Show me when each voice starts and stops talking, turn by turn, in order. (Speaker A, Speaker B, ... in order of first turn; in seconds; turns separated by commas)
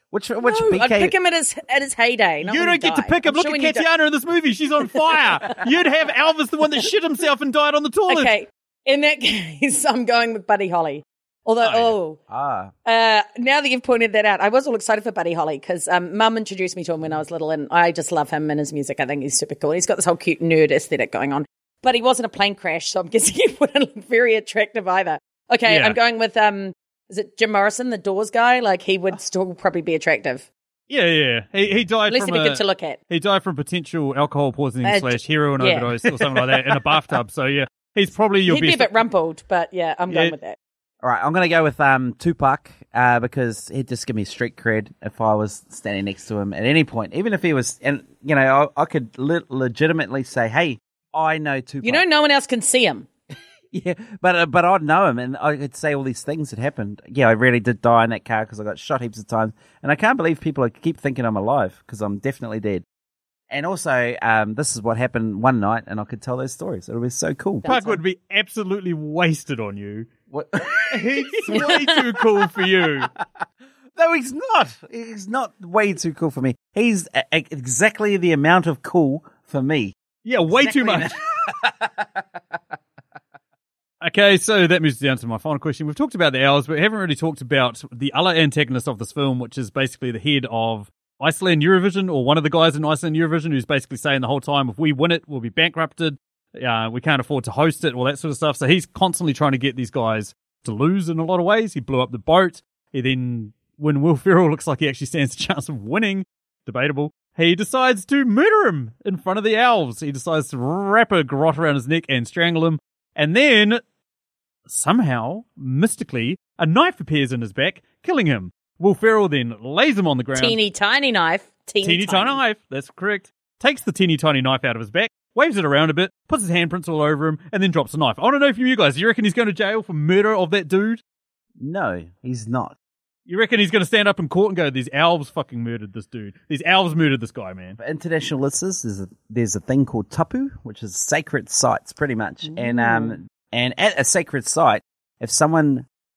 Speaker A: 0.1-1.1, Speaker B: 0.4-3.9, Speaker C: 2.4-8.3, Speaker B: 4.9-5.7, Speaker B: 8.1-12.2, Speaker C: 11.6-12.0, Speaker A: 12.3-12.7, Speaker B: 12.8-30.5, Speaker C: 25.7-26.0, Speaker C: 30.9-39.0, Speaker B: 32.1-33.0, Speaker B: 34.8-36.1, Speaker B: 38.5-40.6, Speaker C: 40.1-40.4, Speaker A: 41.0-52.0, Speaker B: 51.8-53.1, Speaker A: 53.7-62.8, Speaker A: 63.5-67.7, Speaker B: 67.6-68.0, Speaker C: 67.7-70.1, Speaker A: 70.3-72.9, Speaker C: 70.9-73.1, Speaker B: 71.5-72.0, Speaker A: 74.0-80.0, Speaker C: 80.2-81.1, Speaker A: 80.5-82.2, Speaker C: 84.0-113.8, Speaker C: 114.7-120.6, Speaker B: 120.3-122.4, Speaker C: 121.8-131.0, Speaker A: 131.6-132.8, Speaker C: 133.3-137.8, Speaker A: 137.8-145.9, Speaker B: 142.6-143.1